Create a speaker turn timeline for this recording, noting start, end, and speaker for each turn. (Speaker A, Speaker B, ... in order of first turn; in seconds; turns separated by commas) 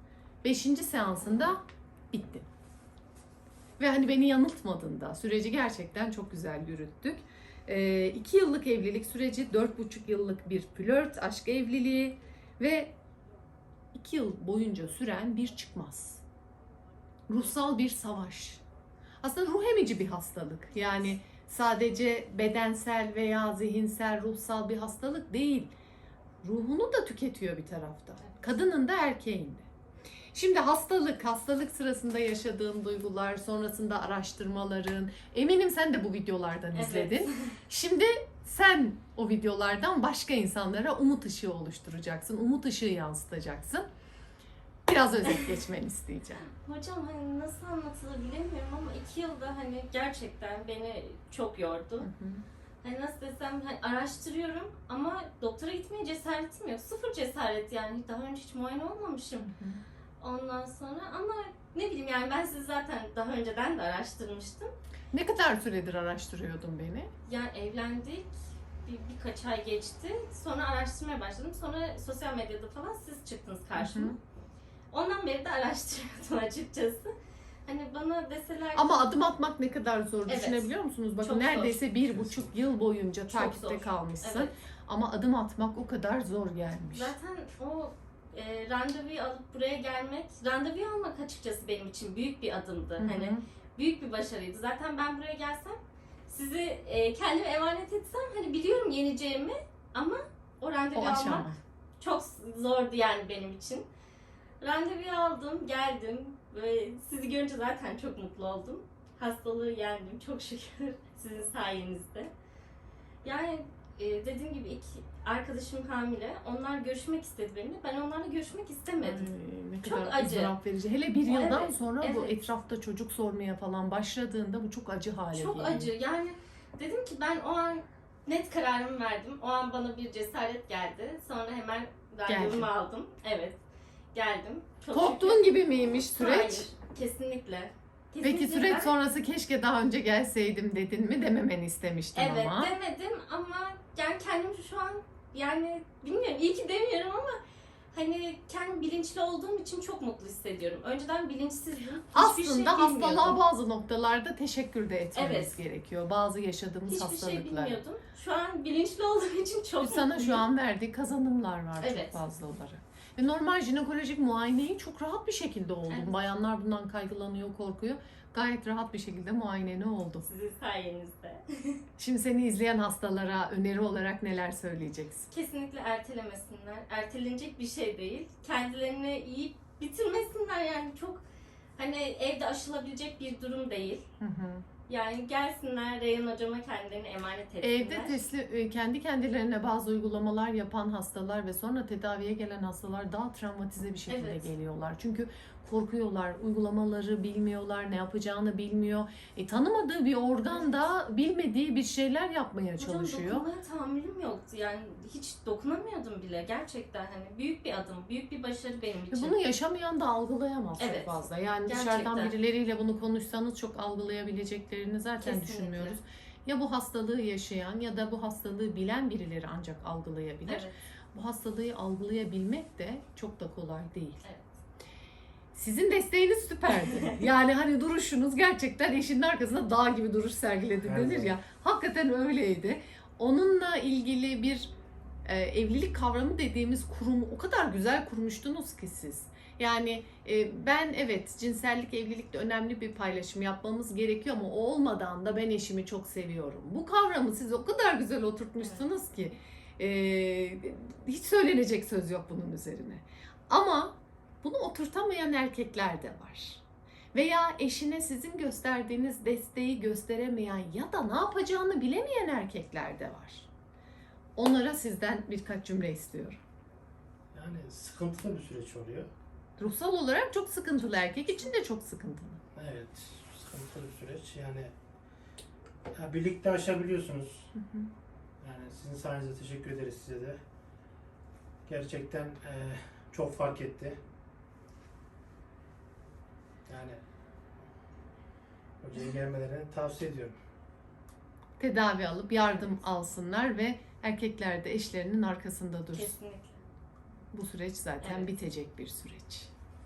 Speaker A: 0.4-1.6, Speaker A: 2.1-2.5, Speaker A: 3.8-12.9, Speaker A: 13.9-16.2, Speaker A: 17.3-18.6, Speaker A: 19.2-25.7, Speaker A: 26.4-29.7, Speaker A: 30.3-43.9, Speaker B: 36.7-37.5, Speaker A: 44.9-46.5, Speaker B: 46.6-52.1, Speaker A: 52.0-52.4, Speaker B: 52.8-59.5, Speaker A: 59.4-59.8, Speaker B: 60.2-64.7, Speaker A: 65.1-67.1, Speaker B: 67.3-74.2, Speaker A: 73.8-74.2, Speaker B: 74.9-77.1, Speaker B: 77.7-79.3, Speaker A: 78.8-87.1, Speaker B: 80.3-80.7, Speaker B: 81.2-81.8, Speaker C: 82.1-82.5, Speaker B: 83.3-84.5, Speaker B: 86.9-95.8, Speaker A: 93.0-93.4, Speaker B: 96.3-103.9, Speaker A: 101.0-101.6, Speaker B: 104.6-112.3, Speaker B: 113.2-120.5, Speaker A: 119.0-125.9, Speaker B: 121.3-122.5, Speaker B: 125.3-133.6, Speaker A: 132.3-132.7, Speaker B: 134.1-138.9, Speaker A: 134.9-136.7, Speaker A: 138.2-142.7, Speaker B: 142.2-147.4, Speaker B: 147.9-153.4, Speaker A: 152.1-157.8, Speaker B: 155.2-155.5, Speaker B: 156.9-160.5, Speaker A: 159.8-170.3, Speaker B: 161.8-162.2, Speaker B: 165.9-166.2, Speaker B: 170.2-171.8, Speaker A: 172.0-175.3, Speaker B: 175.3-181.2, Speaker B: 181.8-184.1, Speaker A: 184.2-184.7, Speaker B: 184.9-188.2, Speaker A: 187.6-203.5, Speaker B: 194.1-194.5, Speaker B: 200.5-200.9, Speaker B: 202.8-209.4, Speaker A: 209.1-224.2, Speaker B: 210.8-212.3, Speaker B: 215.2-216.0, Speaker B: 220.5-220.8, Speaker B: 224.2-224.5, Speaker A: 225.5-234.7, Speaker B: 226.8-227.1, Speaker C: 230.8-231.4, Speaker A: 235.2-256.6, Speaker B: 248.6-248.9, Speaker A: 257.1-263.5, Speaker A: 264.4-266.4, Speaker C: 267.3-269.1, Speaker A: 269.6-272.4, Speaker C: 272.6-274.7, Speaker C: 275.9-277.5, Speaker A: 277.6-277.9, Speaker C: 278.4-280.4, Speaker C: 281.7-284.0, Speaker C: 286.7-287.0, Speaker C: 288.8-290.4, Speaker A: 291.6-296.1, Speaker B: 295.9-296.6, Speaker A: 297.3-299.5, Speaker B: 298.0-298.3